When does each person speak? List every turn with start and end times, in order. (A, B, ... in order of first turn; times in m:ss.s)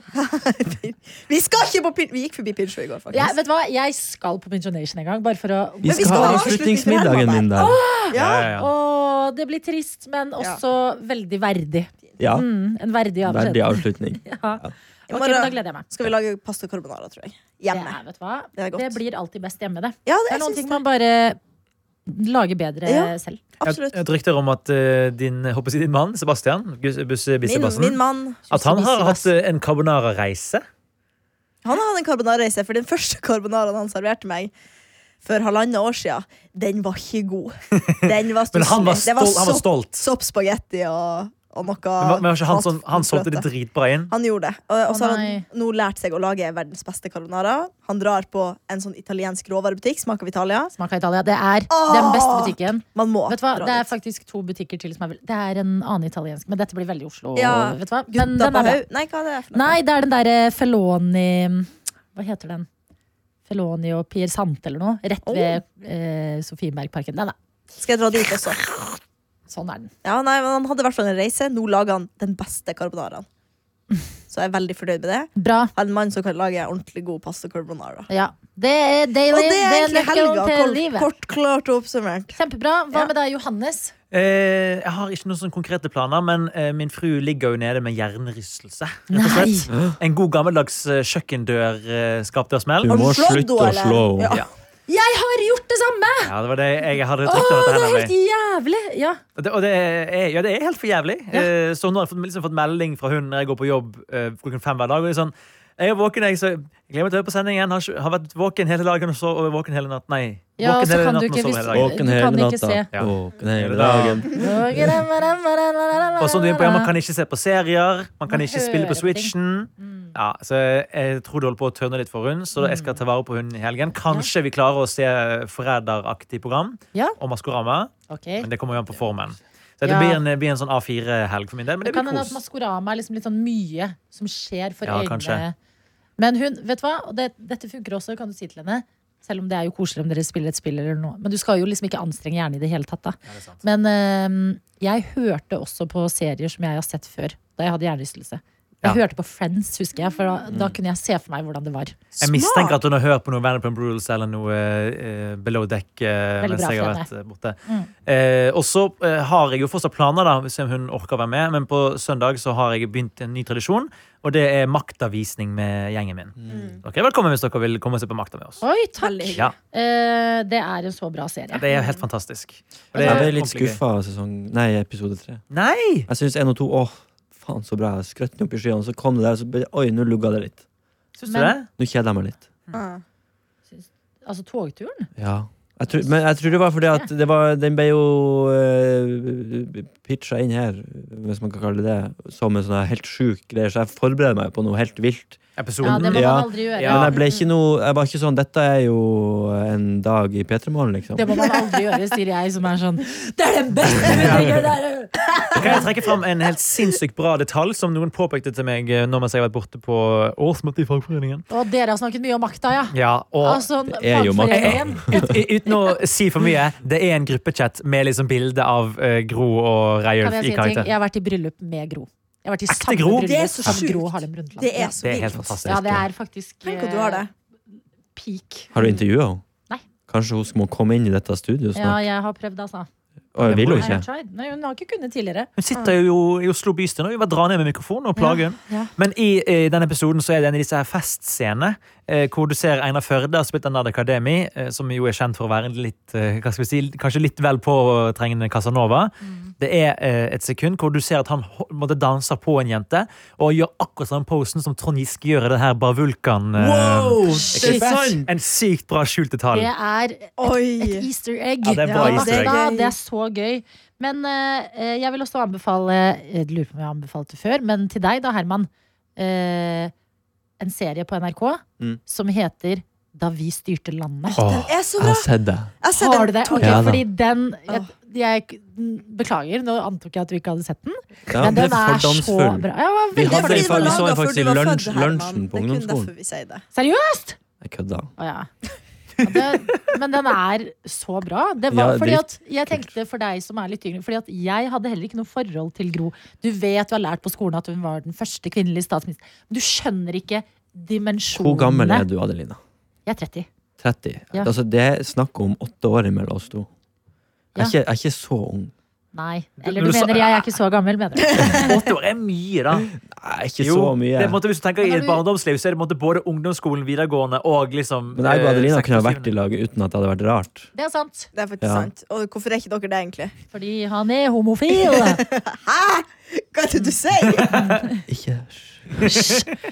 0:00.1-0:03.3 A
0:03.1-0:06.7 B
0:05.8-0:07.8 C
0:05.8-0:08.5 A
0:07.6-0:15.8 B
0:08.1-0:08.7 D
0:12.2-0:12.5 C
0:13.2-0:14.7 C
0:15.1-0:18.0 A
0:17.7-0:21.4 B
0:18.6-0:19.0 A
0:20.0-0:20.8 A
0:22.1-0:23.4 B
0:22.8-0:24.0 A
0:23.6-0:30.6 D
0:27.4-0:28.5 A
0:28.5-0:29.3 B
0:31.6-0:34.5 A
0:35.2-0:43.4 A
0:37.8-0:40.1 D
0:42.0-0:44.1 D
0:44.1-0:50.7 A
0:44.9-0:45.4 B
0:50.8-0:58.8 B
0:51.7-0:53.9 A
0:57.4-0:59.8 A
0:59.5-1:02.7 B
1:03.5-1:07.3 B
1:05.2-1:05.6 A
1:07.8-1:08.6 A
1:09.5-1:09.9 B
1:10.0-1:13.2 A
1:14.3-1:18.1 A
1:15.4-1:15.7 B
1:18.1-1:21.1 B
1:19.3-1:22.4 A
1:22.3-1:23.9 B
1:24.1-1:33.0 D
1:29.1-1:29.7 B
1:32.8-1:34.4 C
1:32.9-1:34.4 A
1:34.9-1:36.3 B
1:36.2-1:38.1 D
1:37.2-1:39.2 B
1:39.4-1:51.9 D
1:50.6-1:52.9 B
1:51.7-1:55.0 C
1:52.9-1:54.2 D
1:54.3-1:56.9 B
1:56.2-2:12.4 D
1:58.3-2:00.1 B
2:02.6-2:03.0 B
2:08.1-2:08.5 B
2:09.8-2:10.2 B
2:11.8-2:15.5 B
2:14.8-2:15.4 D
2:16.2-2:31.9 B
2:23.3-2:23.6 D
2:30.5-2:30.8 C
2:32.2-2:32.8 A
2:32.2-2:48.6 D
2:36.4-2:37.1 B
2:46.4-2:46.7 C
2:46.5-2:46.8 A
2:48.6-2:51.6 B
2:49.0-2:49.5 A
2:51.5-2:53.8 D
2:51.7-2:52.0 A
2:52.9-2:55.4 C
2:53.0-2:53.3 B
2:55.5-2:56.1 D
2:56.1-3:00.6 C
3:01.2-3:01.7 D
3:01.3-3:01.6 B
3:01.8-3:02.4 C
3:02.7-3:03.0 A
3:03.7-3:05.1 B
3:05.2-3:21.4 C
3:15.6-3:17.1 D
3:15.8-3:17.2 B
3:21.2-3:25.8 B
3:21.4-3:21.8 A
3:24.0-3:24.5 D
3:25.5-3:31.4 D
3:31.5-3:35.4 B
3:32.9-3:33.6 D
3:33.9-3:35.4 C
3:34.5-3:40.9 D
3:40.2-3:45.0 B
3:42.7-3:43.8 D
3:43.2-3:45.5 A
3:45.0-3:46.1 D
3:45.2-3:45.6 C
3:45.6-3:47.3 B
3:46.6-3:47.3 A
3:48.2-3:48.7 B
3:48.7-3:49.4 C
3:50.1-3:52.0 C
3:51.7-3:52.9 B
3:53.3-3:54.1 C
3:53.4-3:54.0 D
3:53.4-3:55.5 B
3:55.6-4:19.7 D
4:16.6-4:18.3 C
4:17.3-4:17.9 B
4:19.5-4:29.9 B
4:20.4-4:21.1 A
4:21.6-4:22.6 D
4:21.8-4:22.9 A
4:30.6-4:34.4 B
4:34.4-4:34.7 D
4:34.4-4:35.3 A
4:35.0-4:35.7 C
4:35.8-4:37.0 A
4:35.9-4:44.1 B
4:36.6-4:37.0 C
4:41.3-4:46.1 C
4:43.2-4:46.6 A
4:46.7-4:47.4 B
4:47.6-4:48.1 C
4:48.2-4:48.5 B
4:49.2-5:02.1 B
4:51.7-4:52.9 C
5:01.3-5:02.6 C
5:03.0-5:03.5 B
5:03.8-5:06.7 C
5:07.6-5:08.7 C
5:09.1-5:11.7 B
5:09.6-5:10.5 D
5:11.3-5:12.9 D
5:11.4-5:11.7 A
5:13.0-5:14.4 C
5:13.6-5:19.3 D
5:14.8-5:15.2 B
5:18.1-5:20.7 C
5:20.7-5:21.3 B
5:21.3-5:23.3 A
5:21.6-5:21.9 C
5:23.5-5:25.2 B
5:24.7-5:27.6 A
5:27.3-5:27.7 D
5:27.5-5:28.0 B
5:28.1-5:29.1 C
5:29.0-5:29.5 D